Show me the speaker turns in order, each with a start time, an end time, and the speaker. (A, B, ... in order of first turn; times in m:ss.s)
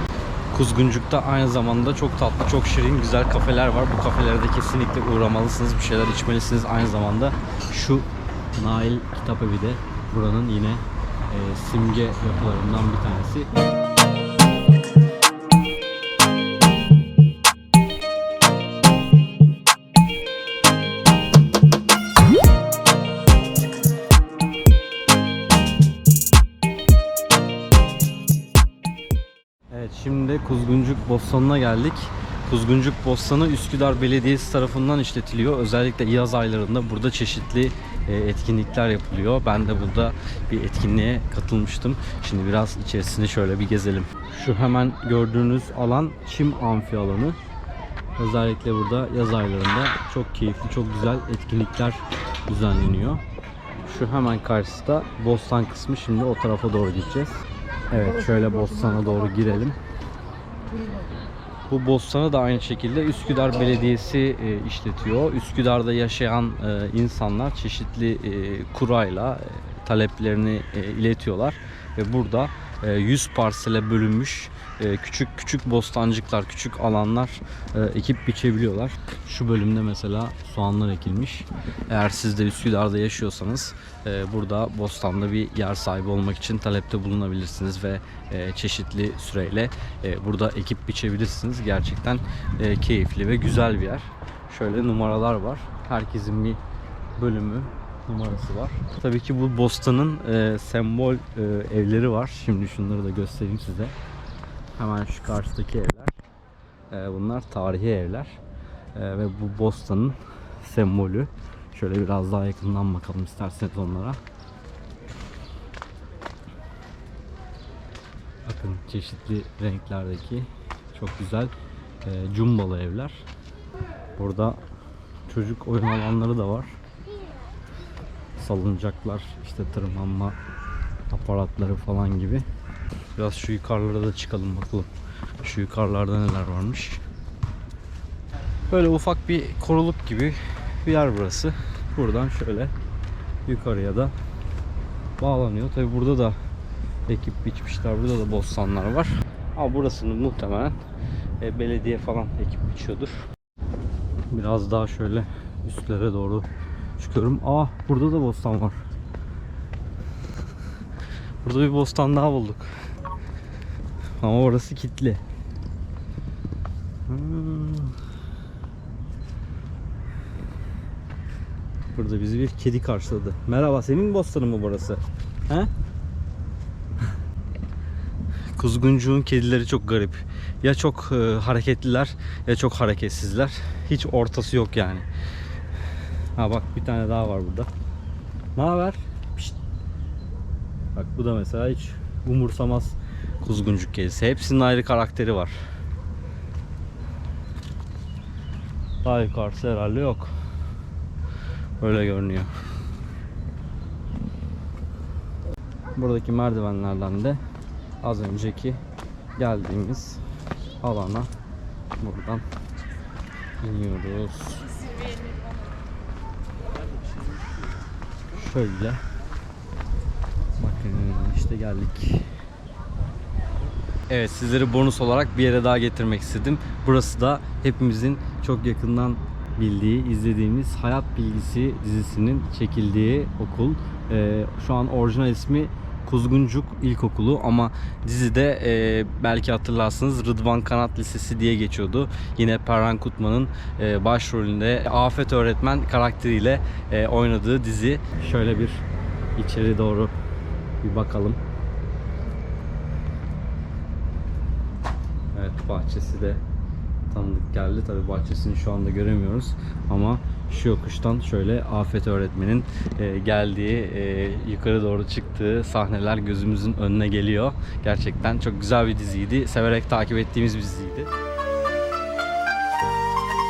0:00.5-0:13.5 A
0:29.7-0:47.4 A
0:48.2-0:53.2 A
0:53.8-0:57.4 A
0:57.9-0:59.8 A
1:01.7-1:36.6 A
1:37.2-1:43.9 A
1:44.7-1:46.2 A
1:46.9-1:48.4 A
1:48.9-1:54.2 A
1:58.4-2:03.2 A
2:04.2-2:04.6 A
2:05.3-2:06.7 A
2:08.4-2:10.4 A
2:11.1-2:12.4 A
2:13.1-2:14.9 A
2:15.4-2:17.0 A
2:18.7-2:22.7 A
2:23.4-2:24.1 A
2:25.2-2:26.4 A
2:27.0-2:30.8 A
2:31.4-2:33.2 A
2:34.3-2:36.5 A
2:37.0-2:38.8 A
2:41.4-2:42.7 A
2:44.2-2:45.2 A
2:47.0-2:48.0 A
2:51.8-2:55.7 A
2:58.5-3:05.1 A
3:06.4-3:07.7 A
3:08.5-3:09.6 A
3:10.9-3:15.5 A
3:19.0-3:20.3 A
3:21.8-3:22.5 A
3:25.9-3:27.4 A
3:28.0-3:28.8 A
3:29.4-3:30.2 A
3:30.8-3:31.3 A
3:32.0-3:32.4 A
3:33.6-3:34.8 A
3:38.3-3:39.0 A
3:40.6-3:42.2 A
3:44.1-4:08.8 A
4:09.4-4:10.2 A
4:10.8-4:11.4 A
4:15.3-4:16.4 A
4:17.1-4:31.1 A